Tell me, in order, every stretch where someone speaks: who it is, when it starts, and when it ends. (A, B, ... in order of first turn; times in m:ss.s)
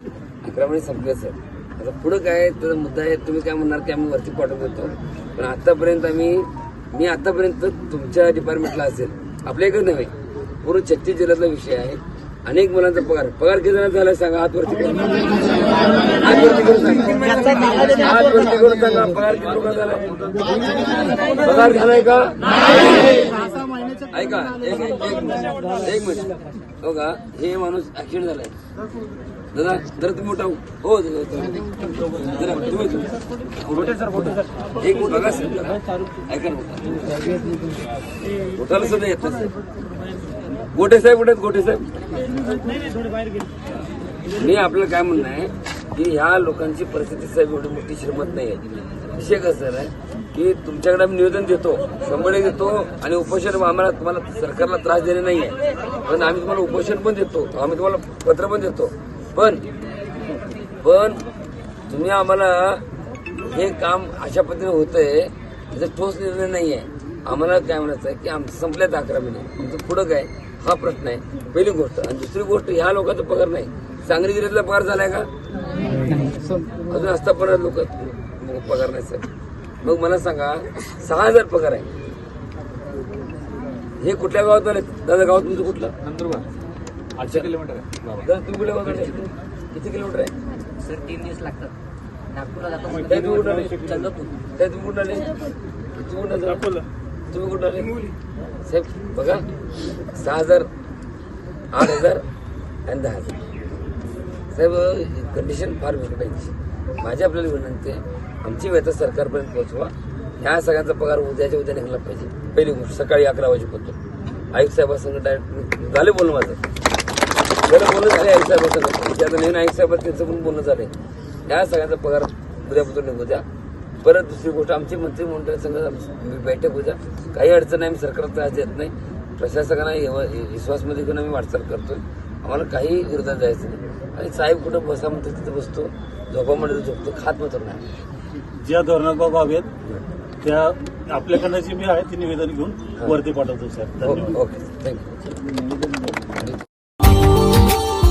0:00.4-0:10.1 A
0:10.6-0:15.3 A
0:16.2-0:20.1 A
0:21.4-0:23.4 A
0:24.1-0:28.5 A
0:29.5-0:31.6 A
0:32.1-0:37.4 A
0:38.6-0:39.5 A
0:40.7-0:42.0 A
0:44.4-0:48.6 A
0:49.2-0:59.6 A
1:00.8-1:01.2 A
1:01.9-1:02.8 A
1:03.5-1:15.3 A
1:16.8-1:19.2 A
1:19.8-1:21.9 A
1:24.0-1:25.9 A
1:27.2-1:27.6 A
1:28.1-1:29.2 A
1:29.7-1:30.3 A
1:30.8-1:31.7 B
1:32.4-1:33.2 B
1:33.0-1:33.9 A
1:33.8-1:34.3 B
1:34.6-1:35.3 A
1:36.0-1:36.7 A
1:37.3-1:37.9 A
1:38.7-1:39.4 A
1:40.2-1:40.7 A
1:41.7-1:42.2 A
1:42.9-1:43.3 A
1:44.5-1:54.0 A
1:54.5-1:56.6 A
1:57.6-2:00.9 A
2:01.5-2:03.4 A
2:04.0-2:17.9 A
2:18.6-2:19.7 C
2:20.4-2:24.3 C
2:24.0-2:25.2 A